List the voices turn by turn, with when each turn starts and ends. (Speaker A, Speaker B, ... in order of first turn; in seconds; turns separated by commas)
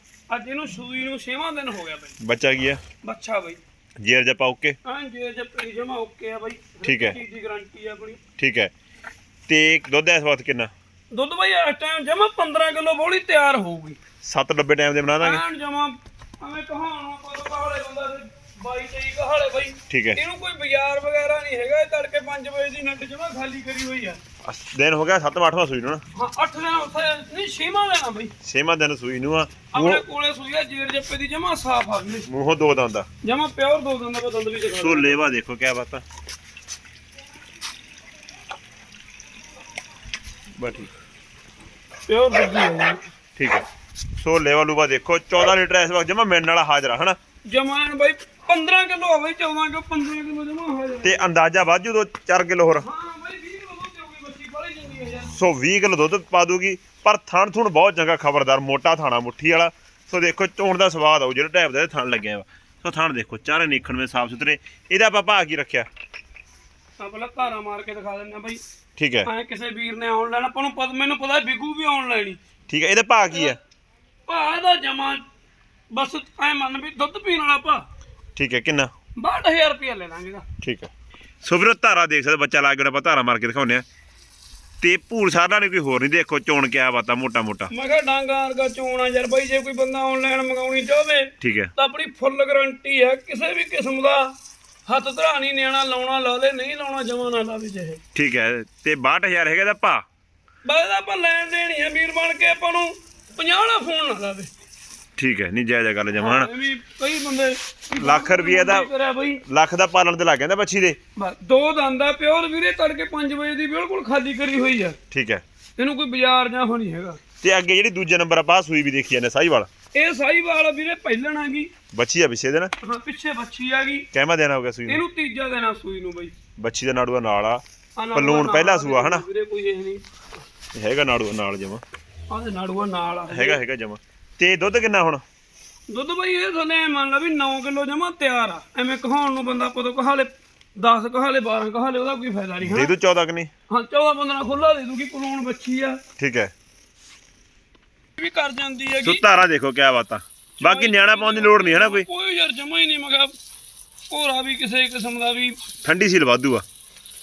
Speaker A: 0.3-2.2, Speaker B: 2.2-2.8, Speaker A: 3.0-3.6, Speaker B: 4.0-4.8, Speaker A: 4.8-8.2, Speaker B: 6.8-7.2, Speaker B: 8.4-8.7, Speaker B: 9.5-10.7, Speaker A: 11.1-14.0, Speaker B: 14.2-15.4, Speaker A: 15.2-24.2, Speaker B: 19.9-20.2, Speaker B: 24.4-26.0, Speaker A: 26.1-28.3, Speaker B: 28.4-30.0, Speaker A: 29.7-32.3, Speaker B: 32.3-33.1, Speaker A: 33.2-35.2, Speaker B: 34.8-36.0, Speaker B: 40.6-40.9, Speaker A: 42.1-43.0, Speaker B: 43.4-43.7, Speaker B: 44.2-47.2, Speaker A: 47.5-51.3, Speaker B: 51.0-52.9, Speaker A: 52.8-55.3, Speaker B: 55.3-65.9, Speaker A: 67.0-68.6, Speaker B: 69.0-69.3, Speaker A: 69.2-72.4, Speaker B: 72.7-73.6, Speaker A: 73.3-73.6, Speaker A: 74.3-75.2, Speaker A: 75.9-77.9, Speaker B: 78.4-78.9, Speaker A: 79.2-80.5, Speaker B: 80.6-80.9, Speaker B: 81.4-83.8, Speaker B: 84.8-87.7, Speaker A: 87.7-98.0, Speaker B: 91.4-91.7, Speaker B: 98.1-100.0, Speaker A: 100.6-104.5, Speaker B: 105.2-106.5, Speaker A: 106.2-109.4, Speaker B: 108.0-108.9, Speaker B: 109.5-111.0, Speaker A: 111.2-115.0, Speaker B: 115.1-115.4, Speaker A: 115.8-117.2, Speaker B: 117.4-119.7, Speaker A: 119.9-121.7, Speaker B: 121.9-122.7, Speaker A: 122.8-124.1, Speaker B: 124.1-125.0, Speaker A: 124.9-126.3, Speaker B: 126.6-127.6, Speaker A: 128.0-130.2, Speaker B: 128.1-129.2, Speaker B: 130.8-131.8, Speaker A: 132.3-133.6, Speaker B: 133.3-135.2, Speaker A: 135.9-142.9, Speaker B: 142.6-143.5, Speaker A: 143.7-146.0, Speaker B: 146.2-146.5, Speaker A: 148.2-149.3, Speaker B: 149.0-152.1, Speaker A: 150.6-153.3, Speaker A: 154.1-155.6, Speaker B: 155.8-156.7